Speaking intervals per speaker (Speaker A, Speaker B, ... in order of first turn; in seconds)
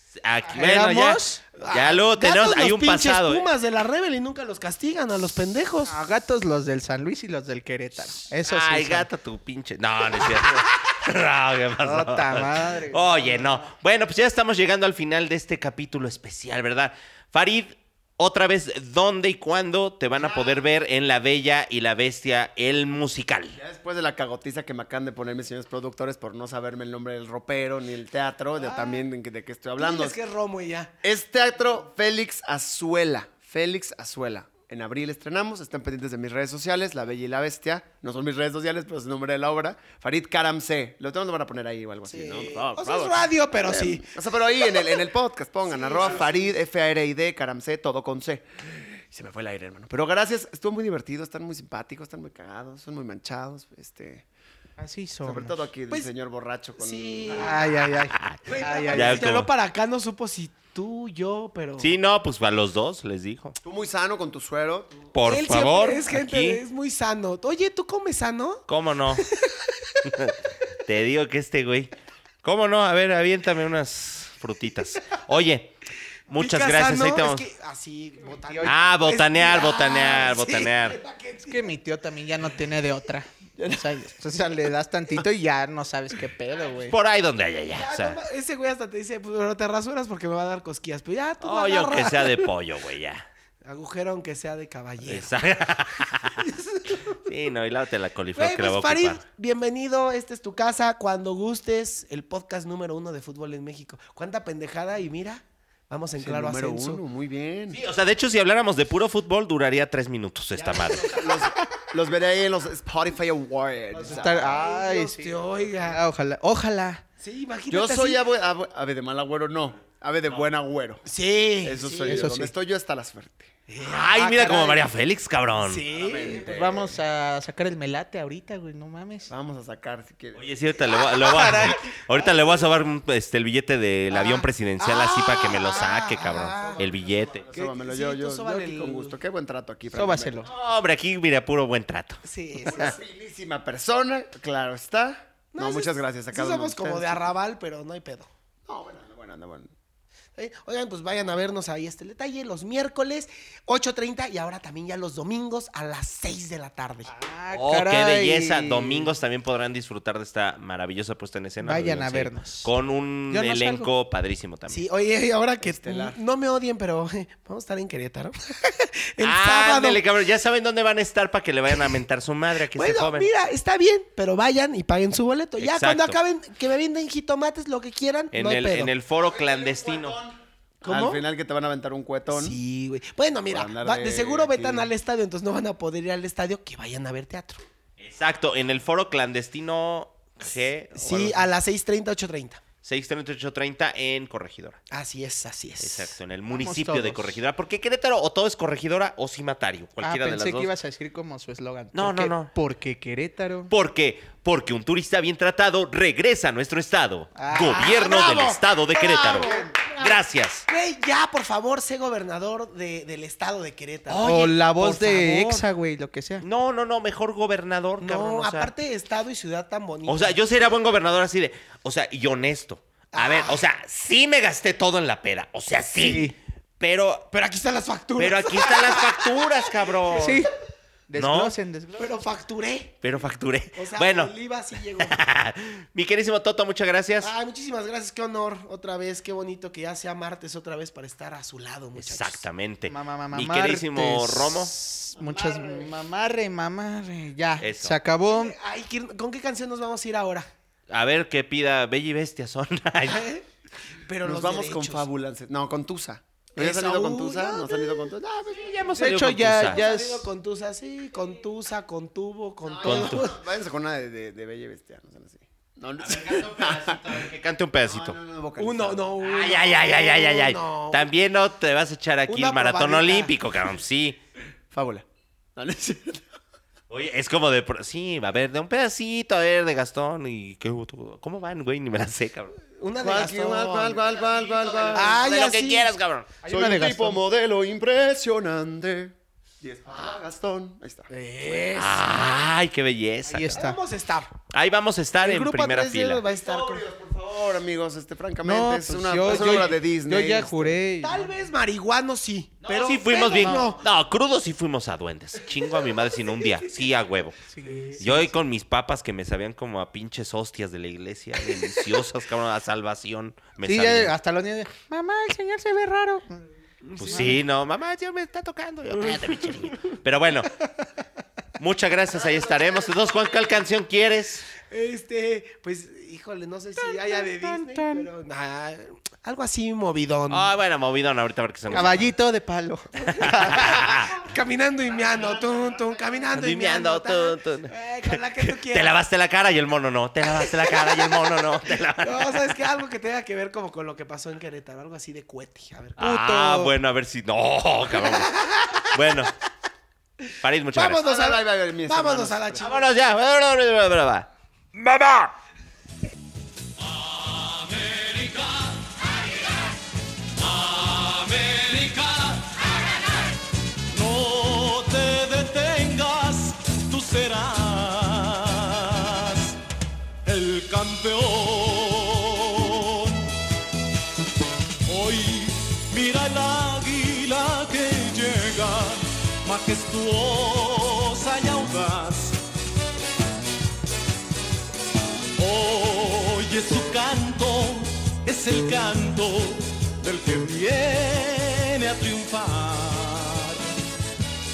Speaker A: 0.2-3.5, 8.3-23.6, 42.3-43.3, 58.1-59.5, 61.8-63.6, 65.1-66.6, 68.7-69.3, 70.0-71.9, 72.4-75.7, 76.3-77.5, 78.6-81.0, 86.9-88.2, 91.4-93.3, 95.1-96.5, 97.0-99.2, 107.7-111.1, 123.8-125.9, 130.3-137.4, 140.5-142.9, 157.5-164.9, 169.2-173.3, 175.6-176.2, 178.3-180.2, 188.0-191.5, 192.8-194.8, 195.8-200.7, 201.9-202.5, 203.7-210.7, 214.1-215.6, 216.4-218.7, 220.1-227.3, 228.2-230.4, 231.2-231.6, 233.0-234.3, 235.0-237.3, 242.0-244.7, 247.6-248.0, 250.9-253.3, 258.5-259.8, 262.8-263.3, 266.0-268.2, 269.2-274.2, 276.9-282.6, 284.9-286.3, 291.7-293.6, 294.5-296.2, 302.6-307.4, 308.0-314.1, 317.0-320.5, 321.6-324.5, 330.3-332.1, 333.0-334.2, 336.3-342.5, 346.0-349.3, 350.4-351.1, 352.6-354.3
Speaker B: 0.5-1.4, 5.9-9.1, 10.2-10.6, 11.8-13.7, 54.8-55.7, 57.3-59.3, 78.5-78.7, 81.5-87.0, 114.1-117.0, 122.1-122.5, 126.3-129.3, 131.2-131.8, 139.9-140.5, 157.2-159.1, 161.6-162.7, 163.3-163.9, 196.5-197.4, 200.0-203.7, 207.4-207.9, 214.2-216.5, 226.0-226.3, 230.1-230.5, 231.1-232.1, 242.9-248.6, 259.0-260.3, 286.4-287.2, 293.3-293.8, 298.4-301.3, 303.3-303.7, 307.5-308.3, 313.6-316.4, 327.4-328.1, 331.7-333.9, 346.0-346.8
Speaker C: 1.6-6.0, 28.6-29.1, 29.8-30.9, 42.1-45.0, 45.6-46.5, 56.8-57.8, 58.5-61.9, 65.3-68.6, 69.2-69.6, 76.3-81.7, 87.7-92.5, 93.6-95.3, 98.4-107.0, 110.5-111.5, 113.9-116.0, 117.2-118.2, 121.1-122.3, 123.7-124.9, 125.6-126.7, 131.4-132.7, 134.1-136.9, 137.5-139.2, 142.2-143.0, 145.6-148.3, 150.4-157.1, 164.7-170.0, 172.7-178.9, 180.8-181.2, 182.3-187.6, 190.9-192.6, 194.9-196.1, 207.5-214.3, 218.0-220.4, 223.2-223.6, 227.3-229.4, 232.0-233.0, 233.8-235.2, 237.2-242.4, 248.3-250.5, 253.1-253.4, 254.0-255.1, 256.6-258.1, 259.6-263.4, 268.6-271.1, 272.3-273.3, 282.8-286.0, 291.1-292.1, 293.5-294.3, 295.2-296.9, 301.0-303.8, 307.6-308.0, 316.8-317.4, 319.0-319.4, 322.2-323.1, 324.7-330.5, 333.1-338.9, 340.3-341.0, 342.0-346.0, 347.9-348.9, 350.8-352.9
Speaker D: 20.2-20.6, 23.5-30.2, 31.0-43.0, 43.6-54.3, 55.2-57.6, 63.6-65.0, 106.2-107.8, 111.0-114.6, 117.7-121.1, 121.6-123.5, 125.9-126.9, 129.3-130.5, 136.6-140.5, 142.6-147.4, 148.7-149.7, 165.6-166.2, 179.2-182.6, 183.5-184.9, 209.3-209.7, 245.2-245.9, 254.2-258.9, 262.6-267.3, 267.8-269.1, 274.7-275.1, 275.6-276.3, 283.0-285.2, 286.4-291.1, 296.2-300.8, 351.0-352.7
Speaker E: 354.8-355.3, 357.2-358.9, 360.4-362.6, 363.9-369.6, 370.3-373.3, 374.9-382.4, 385.4-393.7